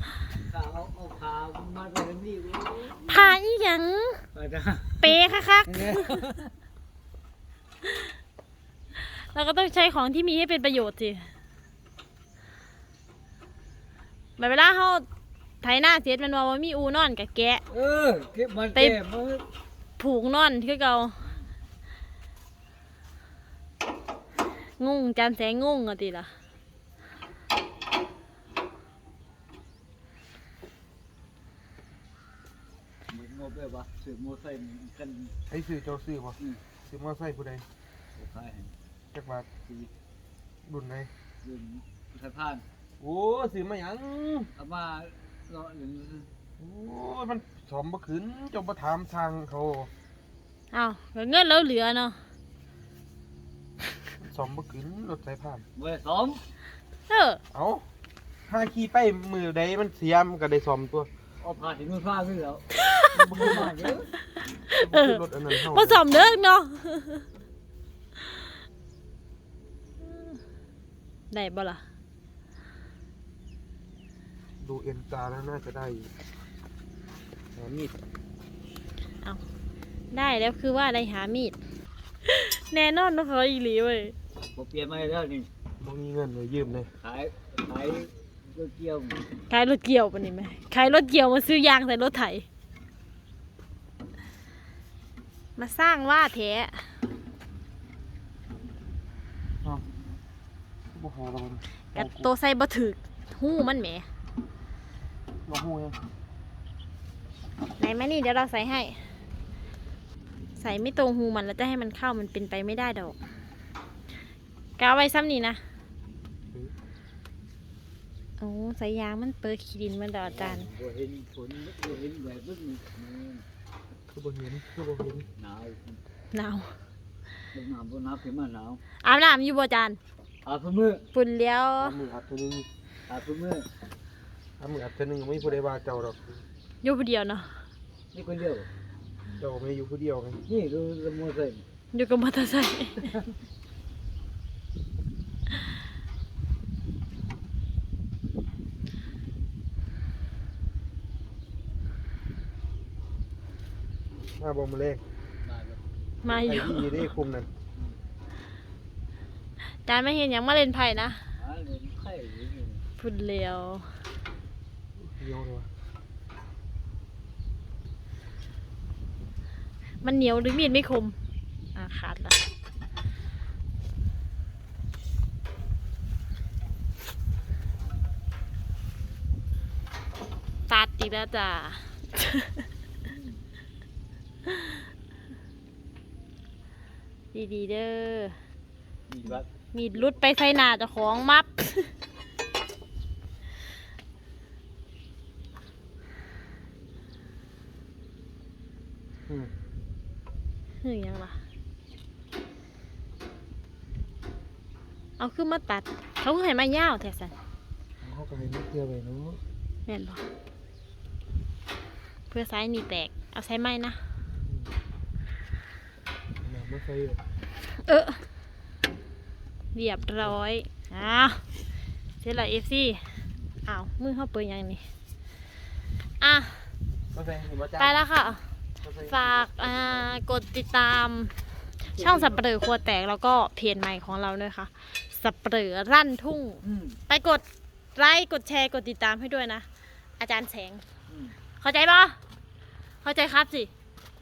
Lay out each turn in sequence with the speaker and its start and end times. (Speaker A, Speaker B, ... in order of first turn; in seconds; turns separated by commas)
Speaker A: 0.3-3.4, Speaker B: 3.0-4.2, Speaker A: 4.3-6.5, Speaker B: 5.0-6.2, Speaker B: 7.8-8.1, Speaker B: 8.9-11.3, Speaker B: 14.4-15.0, Speaker B: 15.6-17.6, Speaker A: 17.7-19.4, Speaker B: 20.0-21.2, Speaker B: 24.8-26.3, Speaker A: 33.1-35.3, Speaker C: 35.5-37.6, Speaker A: 38.1-38.7, Speaker C: 39.1-39.5, Speaker C: 40.6-41.1, Speaker A: 41.4-42.6, Speaker C: 43.0-44.5, Speaker A: 44.6-46.3, Speaker C: 46.6-49.9, Speaker B: 50.7-52.2, Speaker C: 54.2-55.6, Speaker A: 55.8-56.4, Speaker B: 57.1-57.4, Speaker C: 57.5-57.8, Speaker C: 58.5-61.1, Speaker A: 61.4-64.1, Speaker B: 62.8-63.6, Speaker C: 63.1-63.9, Speaker B: 64.7-67.2, Speaker C: 64.7-66.0, Speaker B: 71.3-71.8, Speaker C: 74.6-76.1, Speaker C: 77.5-78.0, Speaker B: 80.1-81.5, Speaker B: 82.2-84.1, Speaker A: 84.5-85.5, Speaker C: 85.8-86.9, Speaker A: 87.0-89.2, Speaker B: 89.5-92.5, Speaker B: 95.5-96.9, Speaker C: 100.9-102.3, Speaker B: 101.9-104.1, Speaker C: 105.5-106.0, Speaker B: 107.8-109.0, Speaker B: 110.6-113.1, Speaker B: 114.8-115.6, Speaker B: 118.4-120.7, Speaker A: 120.2-123.4, Speaker C: 124.1-125.3, Speaker A: 125.4-126.0, Speaker B: 126.3-126.8, Speaker A: 127.5-128.8, Speaker B: 129.0-130.0, Speaker A: 130.4-131.1, Speaker B: 131.1-132.0, Speaker C: 131.8-132.7, Speaker A: 133.1-133.7, Speaker C: 134.6-136.4, Speaker B: 136.8-137.5, Speaker A: 138.1-138.7, Speaker C: 139.3-140.4, Speaker A: 140.5-141.6, Speaker B: 141.9-143.2, Speaker C: 154.3-155.0, Speaker A: 155.4-155.8, Speaker B: 156.2-157.1, Speaker C: 156.3-157.5, Speaker B: 159.8-161.2, Speaker A: 161.3-162.8, Speaker B: 163.0-163.9, Speaker C: 165.0-165.7, Speaker B: 170.0-171.2, Speaker B: 171.7-172.4, Speaker B: 180.7-182.6, Speaker A: 183.1-183.4, Speaker B: 187.3-188.3, Speaker A: 189.1-190.2, Speaker B: 189.7-191.9, Speaker C: 199.3-199.5, Speaker B: 200.8-201.4, Speaker B: 205.2-207.3, Speaker C: 208.0-209.4, Speaker B: 209.8-210.2, Speaker B: 212.3-214.0, Speaker C: 214.4-214.7, Speaker C: 216.4-217.2, Speaker B: 217.7-218.2, Speaker B: 219.7-221.4, Speaker B: 222.2-223.0, Speaker B: 223.7-224.8, Speaker B: 226.2-226.7, Speaker C: 227.1-227.9, Speaker B: 227.8-228.4, Speaker C: 228.8-230.1, Speaker B: 229.0-231.3, Speaker A: 231.9-232.4, Speaker B: 231.9-237.4, Speaker A: 236.6-237.0, Speaker B: 237.9-239.6, Speaker B: 240.2-240.8, Speaker A: 241.1-241.3, Speaker B: 241.6-242.2, Speaker B: 243.0-243.7